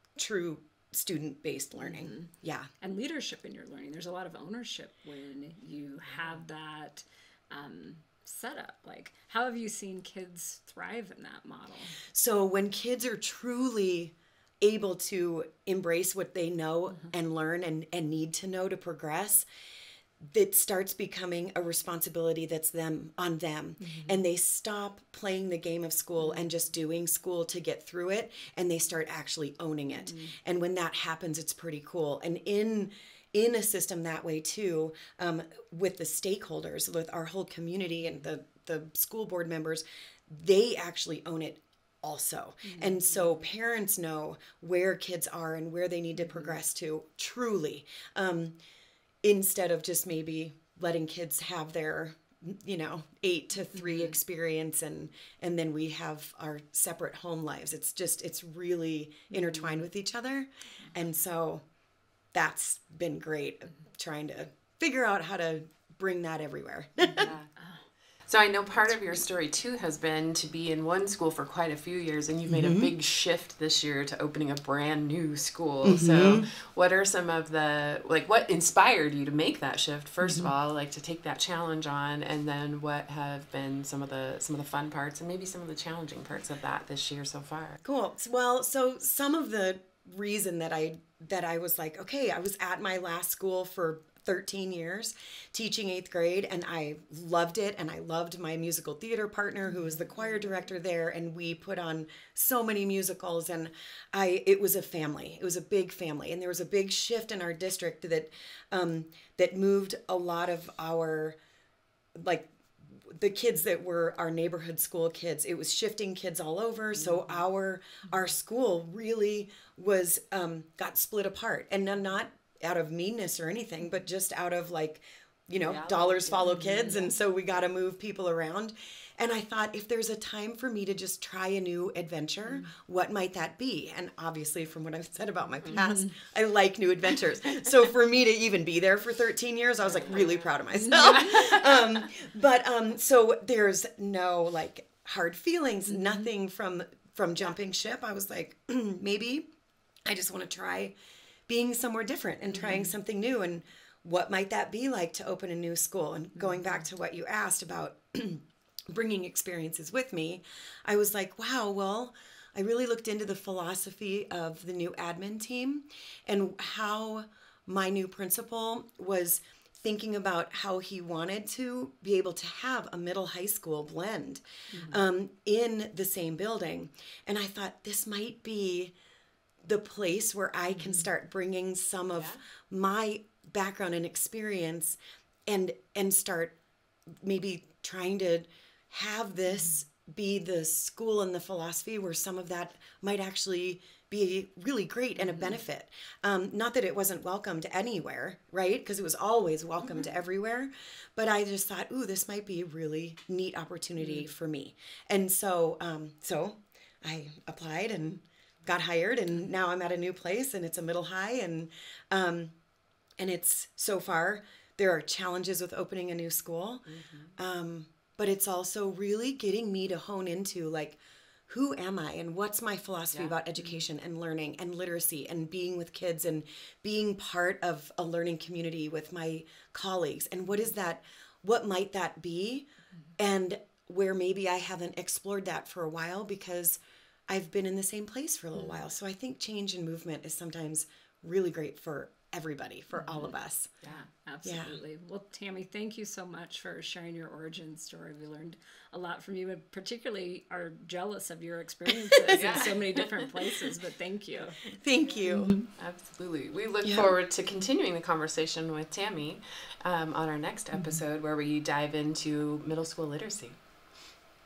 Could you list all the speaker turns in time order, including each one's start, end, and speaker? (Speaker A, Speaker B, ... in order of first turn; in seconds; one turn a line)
Speaker A: 0.2-2.7
Speaker B: 1.8-2.3
Speaker B: 2.8-12.0
Speaker A: 12.1-19.5
Speaker A: 20.2-48.6
Speaker B: 23.8-24.2
Speaker B: 26.2-26.5
Speaker B: 29.9-30.4
Speaker B: 42.6-43.5
Speaker B: 46.2-46.6
Speaker A: 49.2-61.6
Speaker B: 53.8-54.2
Speaker B: 59.3-59.8
Speaker A: 62.3-67.3
Speaker B: 67.0-67.8
Speaker C: 67.2-67.5
Speaker C: 68.3-87.8
Speaker A: 72.5-72.9
Speaker A: 75.8-76.5
Speaker A: 80.2-80.5
Speaker A: 87.8-111.4
Speaker B: 99.7-100.3
Speaker A: 112.2-149.4
Speaker B: 117.0-117.3
Speaker C: 125.6-127.6
Speaker B: 126.5-127.1
Speaker B: 135.7-136.1
Speaker C: 139.8-140.6
Speaker B: 145.9-146.3
Speaker A: 150.1-150.9
Speaker A: 151.5-178.9
Speaker B: 152.5-152.9
Speaker B: 156.4-156.9
Speaker B: 174.7-175.0
Speaker A: 179.6-186.6
Speaker B: 180.7-181.1
Speaker C: 182.1-182.4
Speaker A: 187.2-212.5
Speaker B: 195.2-195.6
Speaker A: 213.2-216.9
Speaker C: 216.9-217.3
Speaker A: 217.4-243.7
Speaker C: 223.1-223.4
Speaker B: 238.6-238.8
Speaker B: 243.0-243.3
Speaker B: 243.8-254.6
Speaker A: 244.4-244.8
Speaker C: 252.3-253.2
Speaker A: 254.8-255.6
Speaker B: 255.2-255.7
Speaker C: 255.8-263.6
Speaker A: 256.8-257.1